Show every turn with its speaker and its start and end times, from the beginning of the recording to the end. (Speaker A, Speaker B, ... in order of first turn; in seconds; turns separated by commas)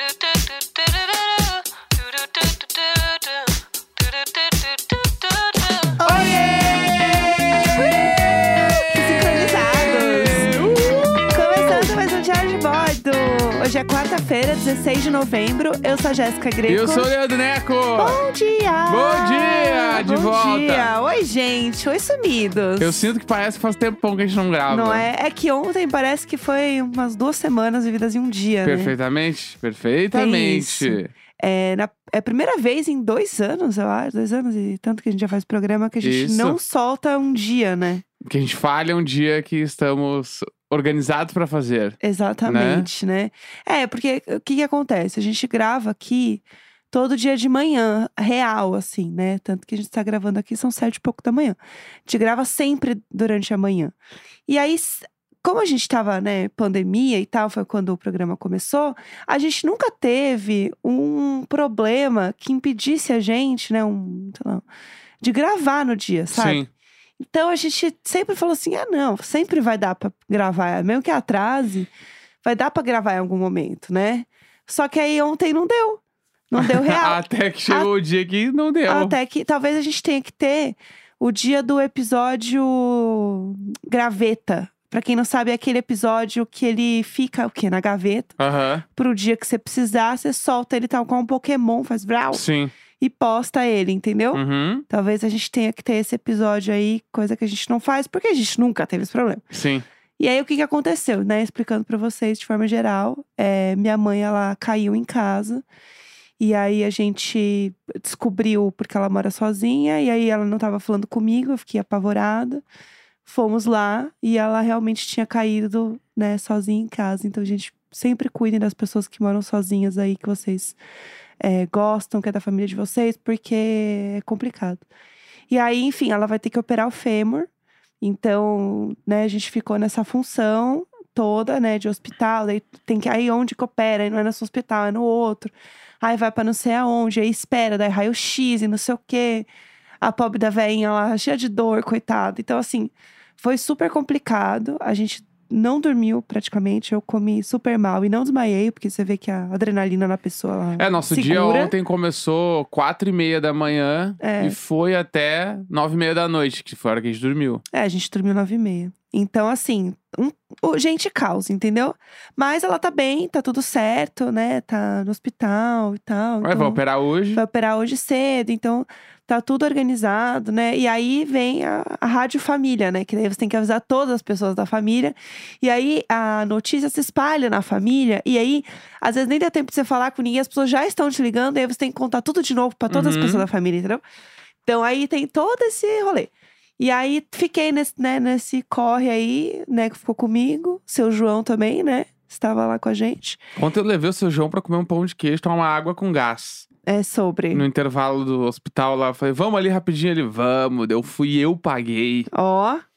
Speaker A: 5.9-11.9, Speaker B: 6.0-10.6, Speaker B: 11.3-17.1, Speaker A: 16.7-18.2, Speaker B: 18.0-23.1, Speaker A: 18.9-20.9, Speaker A: 22.8-25.1, Speaker B: 24.7-28.9, Speaker A: 28.6-31.1, Speaker B: 30.1-38.0, Speaker A: 36.0-36.6, Speaker A: 38.2-42.9, Speaker B: 42.0-54.0, Speaker B: 54.5-64.7, Speaker B: 65.2-66.7, Speaker A: 66.3-66.7, Speaker B: 67.2-71.9, Speaker B: 72.4-77.9, Speaker A: 76.6-79.2, Speaker B: 78.9-88.4, Speaker A: 88.4-88.8, Speaker B: 88.9-92.4, Speaker A: 92.3-92.7, Speaker B: 93.0-99.4, Speaker A: 94.3-94.8, Speaker A: 99.5-99.8, Speaker B: 100.2-105.6, Speaker B: 106.4-112.6, Speaker B: 113.2-120.8, Speaker B: 121.4-124.8, Speaker B: 125.5-127.5, Speaker B: 128.0-139.5, Speaker B: 140.0-151.7, Speaker A: 150.8-157.6, Speaker B: 154.2-154.6, Speaker B: 157.7-166.8, Speaker A: 166.4-167.4, Speaker B: 167.3-184.0, Speaker A: 182.9-183.5, Speaker B: 184.7-193.4, Speaker A: 193.6-196.7, Speaker B: 196.9-197.7, Speaker A: 197.5-202.3, Speaker B: 202.3-202.8